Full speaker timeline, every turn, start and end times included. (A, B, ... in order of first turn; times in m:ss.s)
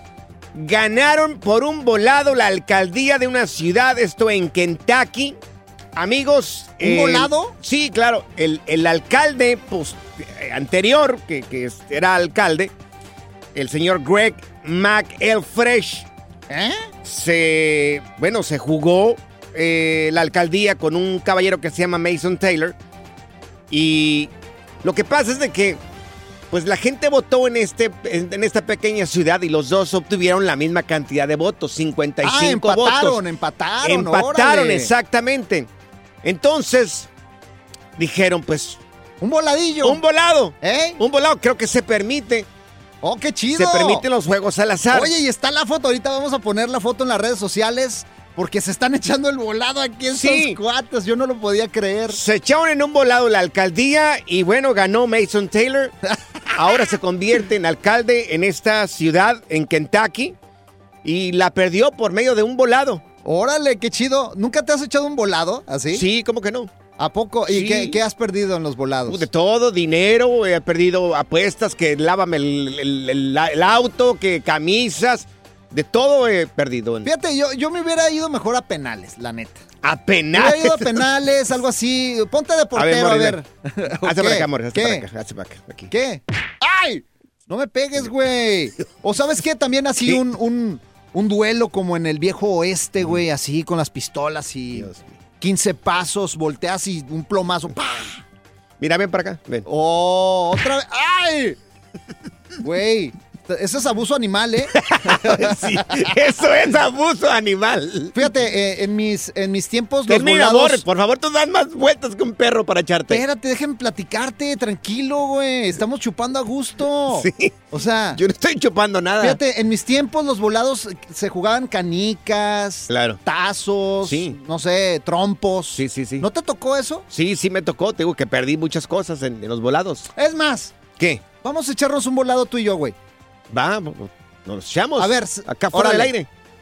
0:00.5-0:05.4 A
0:06.0-0:12.7 A
0:06.8-0:07.5 B
0:13.5-0:16.1 A
0:16.5-0:16.9 B
0:17.0-0:22.8 A
0:23.7-0:24.3 A
0:24.8-0:25.8 A
0:26.5-0:33.2 A
0:32.2-0:34.9 B
0:33.8-0:35.7 A
0:36.2-0:37.1 A
0:38.0-0:38.8 A
0:39.2-0:40.0 B
0:39.8-0:42.5 A
0:40.6-0:41.0 B
0:43.0-0:44.0 B
0:43.5-0:45.1 A
0:44.9-0:52.2 B
0:50.1-0:50.6 A
0:52.1-0:55.9 A
0:56.5-1:00.4 A
1:01.0-1:03.0 A
1:03.2-1:06.0 B
1:05.9-1:06.7 A
1:07.0-1:09.2 B
1:07.5-1:08.0 A
1:09.1-1:17.1 A
1:17.0-1:19.6 B
1:19.8-1:21.0 A
1:20.3-1:25.0 B
1:22.8-1:23.4 A
1:24.0-1:25.9 A
1:25.9-1:34.9 B
1:34.8-1:35.0 A
1:35.4-1:38.2 B
1:38.8-1:39.6 A
1:39.6-1:41.6 B
1:42.6-1:46.1 B
1:44.7-1:48.3 A
1:48.1-1:50.8 B
1:50.1-1:53.2 A
1:53.1-1:58.2 B
1:57.1-1:57.6 A
1:58.1-1:59.4 A
1:59.2-2:07.0 B
2:02.9-2:03.2 A
2:04.0-2:04.3 A
2:05.8-2:06.2 A
2:07.1-2:10.1 A
2:10.2-2:10.7 B
2:11.0-2:11.2 A
2:11.4-2:13.0 B
2:13.5-2:16.3 A
2:15.0-2:16.1 B